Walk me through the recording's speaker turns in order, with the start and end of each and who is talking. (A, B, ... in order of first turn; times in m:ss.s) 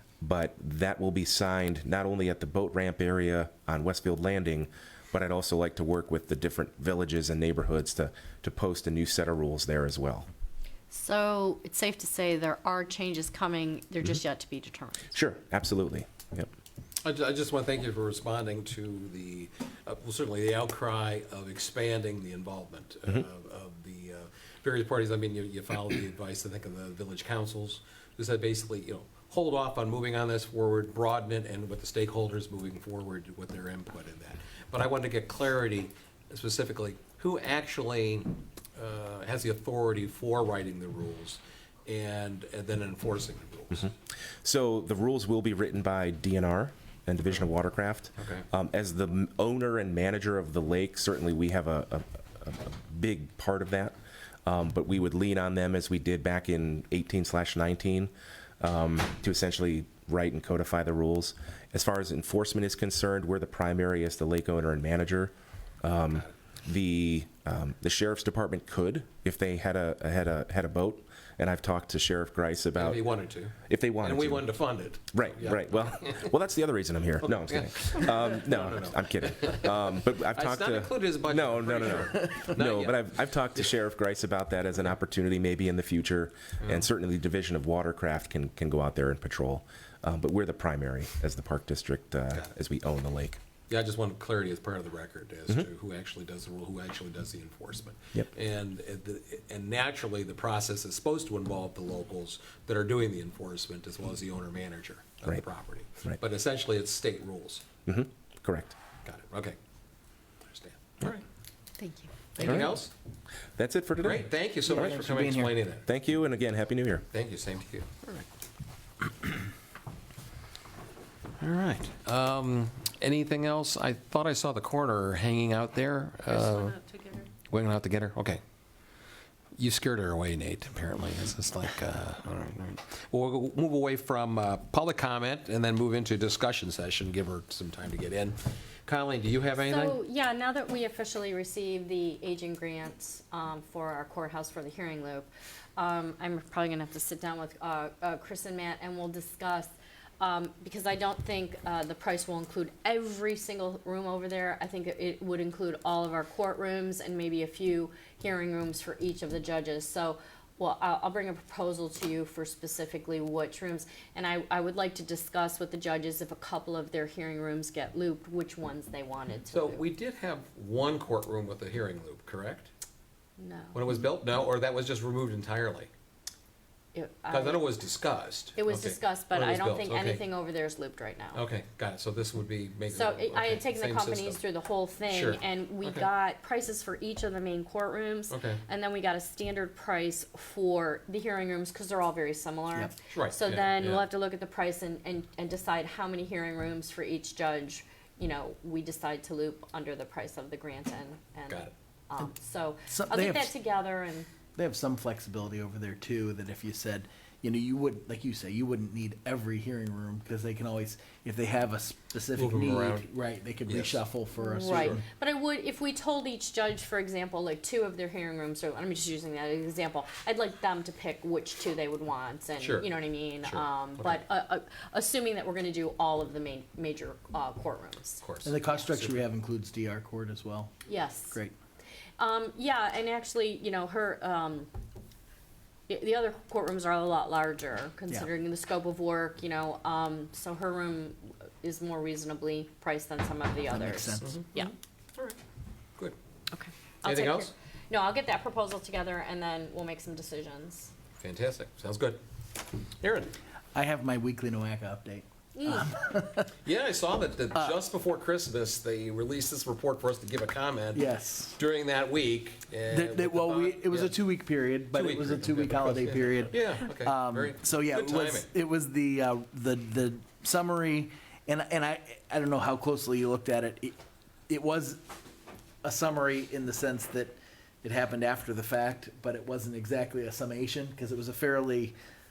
0:00.2-0:10.3 A
0:10.9-0:15.1 B
0:15.1-0:16.5 A
0:17.0-0:43.9 C
0:44.4-0:54.0 A
0:48.2-0:48.4 C
0:54.5-1:13.1 A
1:12.8-1:16.3 C
1:13.7-1:14.5 A
1:15.1-1:33.4 A
1:17.2-1:23.1 C
1:33.7-1:47.6 C
1:47.9-1:48.8 A
1:49.0-1:49.6 C
1:50.5-1:51.2 C
1:51.8-1:52.2 B
1:52.4-1:52.9 C
1:52.4-1:52.7 D
1:52.4-1:52.8 A
1:53.6-1:54.2 A
1:54.0-1:55.8 C
1:54.6-1:55.6 D
1:55.9-1:57.0 A
1:57.1-1:58.2 C
2:01.4-2:06.8 C
2:06.5-2:07.3 B
2:07.5-2:08.4 C
2:09.6-2:20.0 C
2:19.6-2:49.8 B
2:49.5-2:52.7 C
2:53.4-2:54.0 B
2:53.7-2:55.9 C
2:56.9-2:57.7 B
2:57.3-3:00.3 C
2:58.6-3:01.4 B
3:01.3-3:04.4 C
3:02.9-3:24.3 B
3:05.1-3:06.1 C
3:08.3-3:08.6 C
3:13.1-3:14.1 C
3:22.9-3:23.5 D
3:24.6-3:35.0 D
3:32.3-3:33.1 C
3:33.7-3:34.0 C
3:34.4-3:48.2 B
3:34.8-3:35.0 C
3:42.6-3:44.2 C
3:48.2-3:49.2 C
3:48.4-3:50.7 D
3:50.9-3:51.4 B
3:52.2-3:54.7 B
3:55.9-4:04.7 B
4:03.7-4:04.4 D
4:04.2-4:05.4 C
4:06.5-4:10.9 B
4:07.0-4:07.5 C
4:11.2-4:12.2 C
4:13.0-4:13.4 C
4:13.8-4:16.5 D
4:15.6-4:16.0 B
4:16.6-4:24.2 C
4:20.9-4:21.6 D
4:22.9-4:34.0 D
4:24.9-4:28.5 C
4:34.5-4:35.0 D
4:35.8-4:42.0 D